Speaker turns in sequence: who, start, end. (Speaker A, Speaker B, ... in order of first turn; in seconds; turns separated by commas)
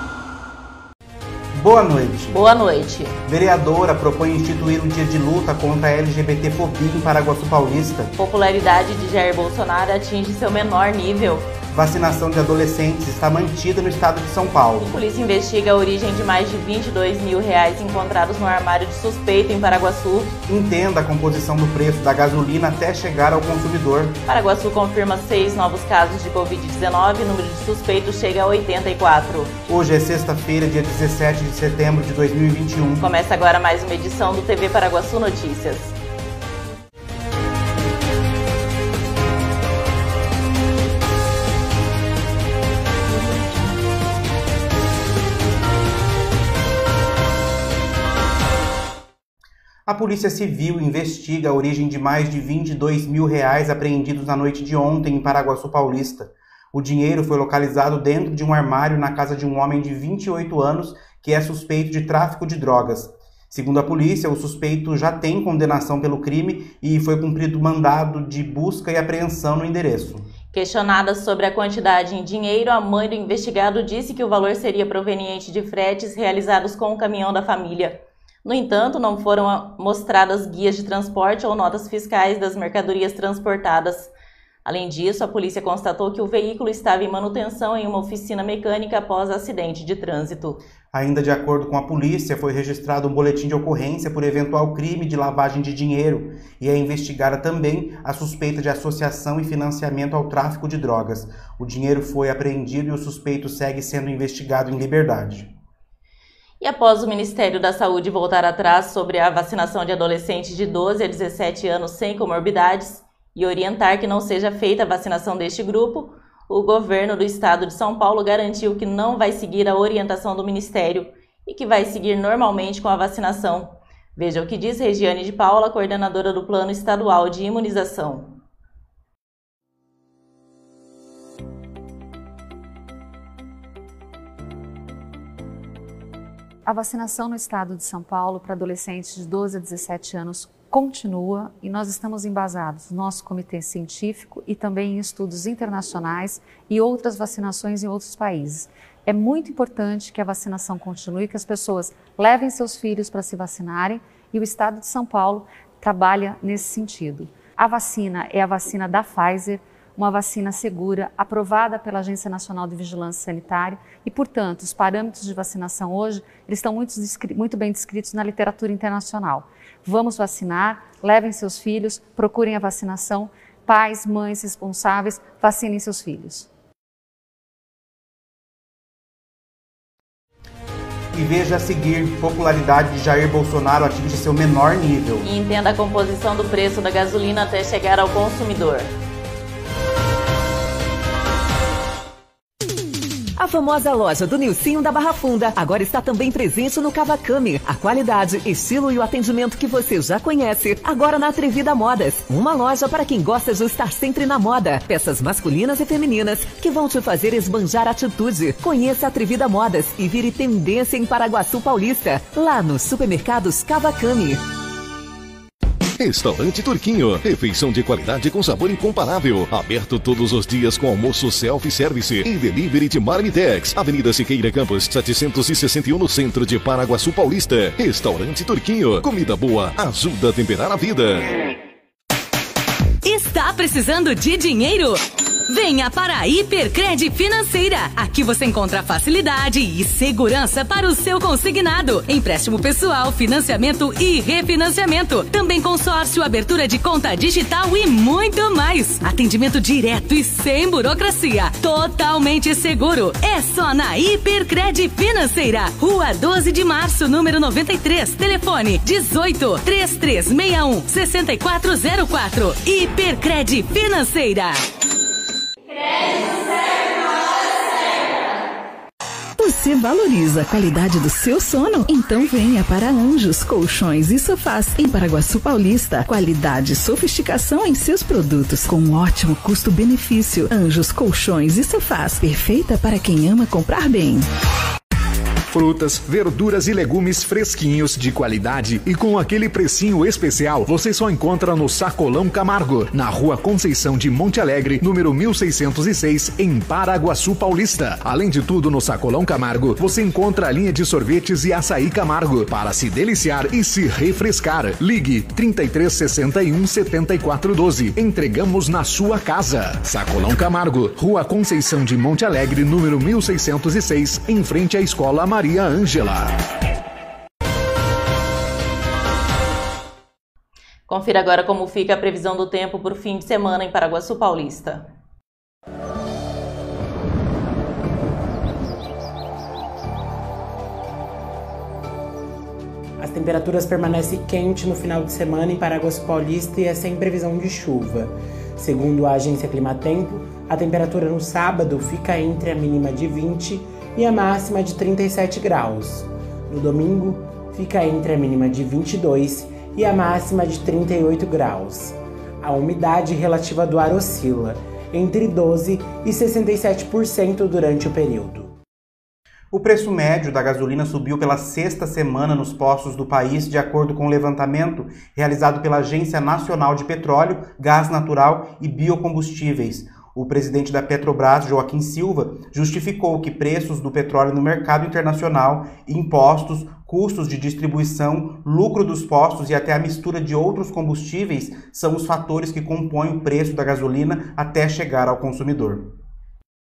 Speaker A: 1.6-2.4, Speaker B: 2.3-3.1, Speaker A: 3.3-8.1, Speaker B: 8.2-11.5, Speaker A: 11.7-14.9, Speaker B: 14.8-20.4, Speaker A: 20.5-24.2, Speaker B: 24.3-29.6, Speaker A: 29.7-33.1, Speaker B: 33.0-36.0, Speaker A: 49.9-70.3, Speaker B: 70.5-84.1, Speaker B: 84.7-90.6, Speaker A: 90.9-105.5, Speaker B: 106.6-128.4, Speaker C: 136.7-176.5, Speaker A: 181.1-185.3, Speaker B: 185.2-188.9, Speaker D: 193.4-214.4, Speaker E: 216.0-231.3, Speaker F: 233.0-264.6, Speaker G: 269.4-284.2, Speaker H: 285.5-316.4, Speaker B: 320.9-324.9, Speaker I: 333.0-358.6, Speaker A: 359.5-385.9